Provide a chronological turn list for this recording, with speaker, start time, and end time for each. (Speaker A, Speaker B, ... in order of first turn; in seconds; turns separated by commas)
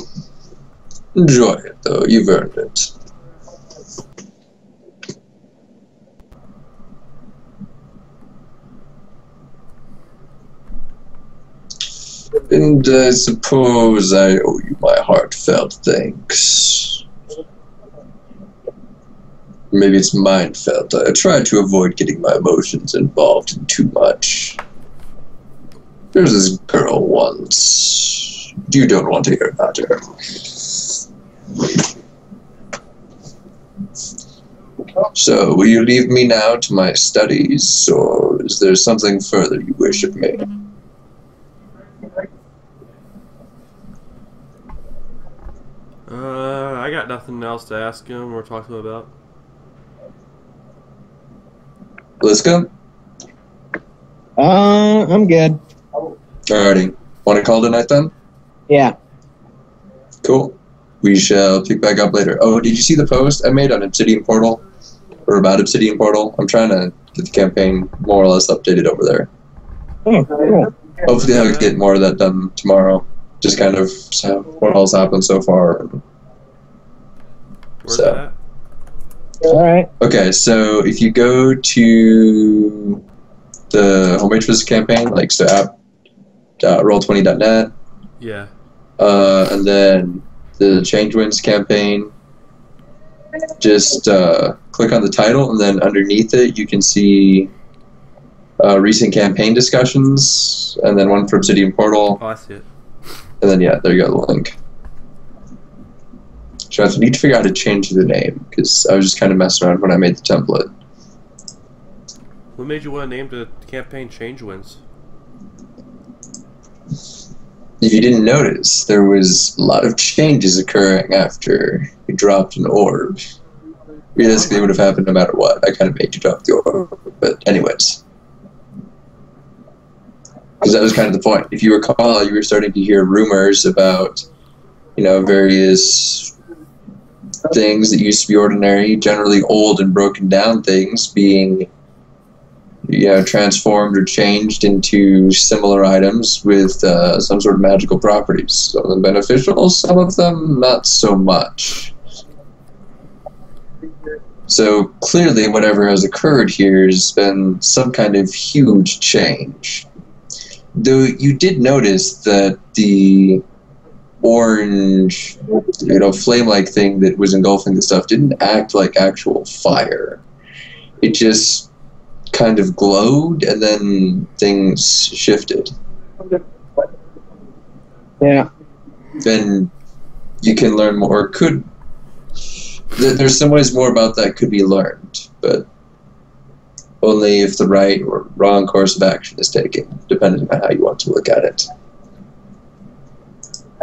Speaker A: 1.1-2.9, Speaker A: 12.5-17.0, Speaker A: 19.7-24.6, Speaker A: 26.1-30.5, Speaker A: 35.1-40.5, Speaker B: 46.1-49.1, Speaker A: 52.2-52.7, Speaker C: 54.4-55.6, Speaker A: 56.5-58.1, Speaker C: 58.7-59.0, Speaker A: 60.2-64.6, Speaker A: 65.3-69.3, Speaker C: 70.1-70.7, Speaker A: 71.0-76.0, Speaker B: 71.1-71.7, Speaker B: 77.8-78.3, Speaker A: 77.9-78.2, Speaker C: 79.4-79.9, Speaker A: 80.0-83.0, Speaker A: 83.7-85.8, Speaker A: 86.6-87.7, Speaker B: 88.2-88.5, Speaker A: 89.0-92.1, Speaker A: 93.6-97.5, Speaker A: 98.6-102.2, Speaker B: 102.2-102.7, Speaker A: 103.4-104.6, Speaker A: 106.7-110.7, Speaker B: 112.6-114.8, Speaker A: 117.8-123.2, Speaker A: 124.2-128.0, Speaker A: 130.6-134.3, Speaker A: 135.0-136.3, Speaker A: 137.5-141.7, Speaker A: 142.9-151.9, Speaker A: 154.5-159.9, Speaker A: 160.8-163.4, Speaker A: 164.2-170.2, Speaker A: 171.0-171.7, Speaker A: 172.3-175.8, Speaker C: 178.2-178.5, Speaker A: 179.2-179.7, Speaker A: 180.4-181.7, Speaker A: 182.9-185.7, Speaker A: 187.0-191.7